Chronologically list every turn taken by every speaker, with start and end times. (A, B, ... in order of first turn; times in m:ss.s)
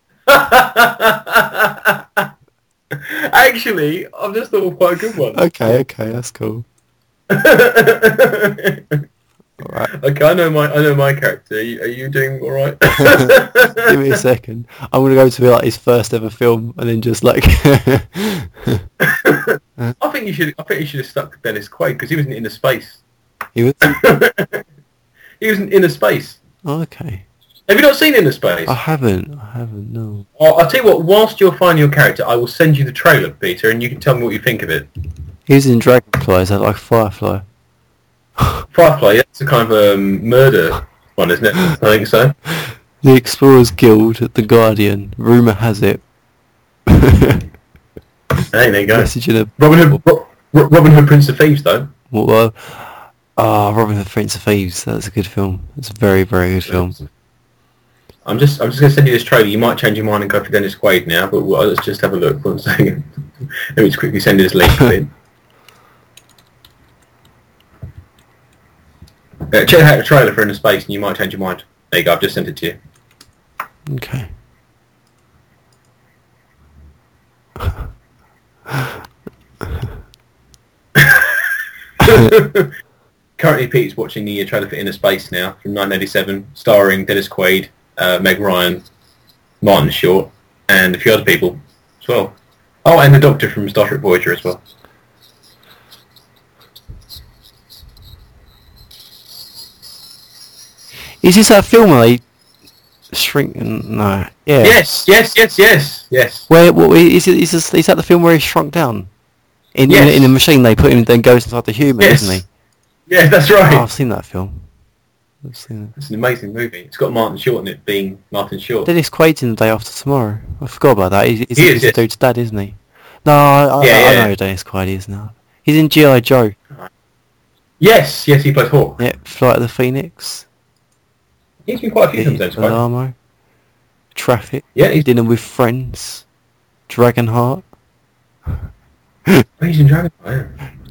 0:00.3-0:02.3 A
0:02.9-0:05.8 A
0:05.3-0:06.7 B
0:07.3-0:09.0 A
0:09.6-0:09.9 B
0:10.0-0:13.9 A
0:13.0-0:18.8 B
0:19.0-0:23.0 A
0:23.6-0:24.0 B
0:23.8-0:24.6 A
0:25.4-0:26.4 A
0:26.6-0:27.2 B
0:27.7-0:28.8 A
0:28.7-0:30.3 B
0:30.4-0:34.9 A
0:35.5-0:37.4 B
0:38.7-0:42.4 A
0:43.0-0:46.0 B
0:46.9-0:47.4 B
0:48.5-0:51.9 A
0:48.9-0:50.0 B
0:52.1-0:57.0 B
0:56.7-0:57.1 A
0:58.3-1:03.1 A
1:03.7-1:05.1 A
1:09.5-1:12.8 A
1:13.9-1:14.3 B
1:21.0-1:21.3 A
1:22.0-1:22.7 A
1:23.4-1:28.8 A
1:29.6-1:32.3 A
1:32.8-1:34.6 A
1:41.2-1:42.2 B
1:43.1-1:45.0 B
1:44.6-1:46.5 A
1:46.5-1:49.1 B
1:49.8-1:52.5 B
1:49.9-1:50.3 A
1:52.0-1:52.4 A
1:53.1-1:53.9 A
1:53.6-1:54.7 B
1:55.4-1:55.9 B
1:56.0-1:58.9 A
1:58.9-2:06.6 B
2:01.6-2:02.0 A
2:03.8-2:04.3 A
2:07.8-2:09.0 A
2:09.0-2:10.5 B
2:11.7-2:12.8 A
2:12.2-2:13.2 B
2:14.2-2:16.2 B
2:14.8-2:15.1 A
2:16.9-2:17.6 B
2:19.6-2:20.5 A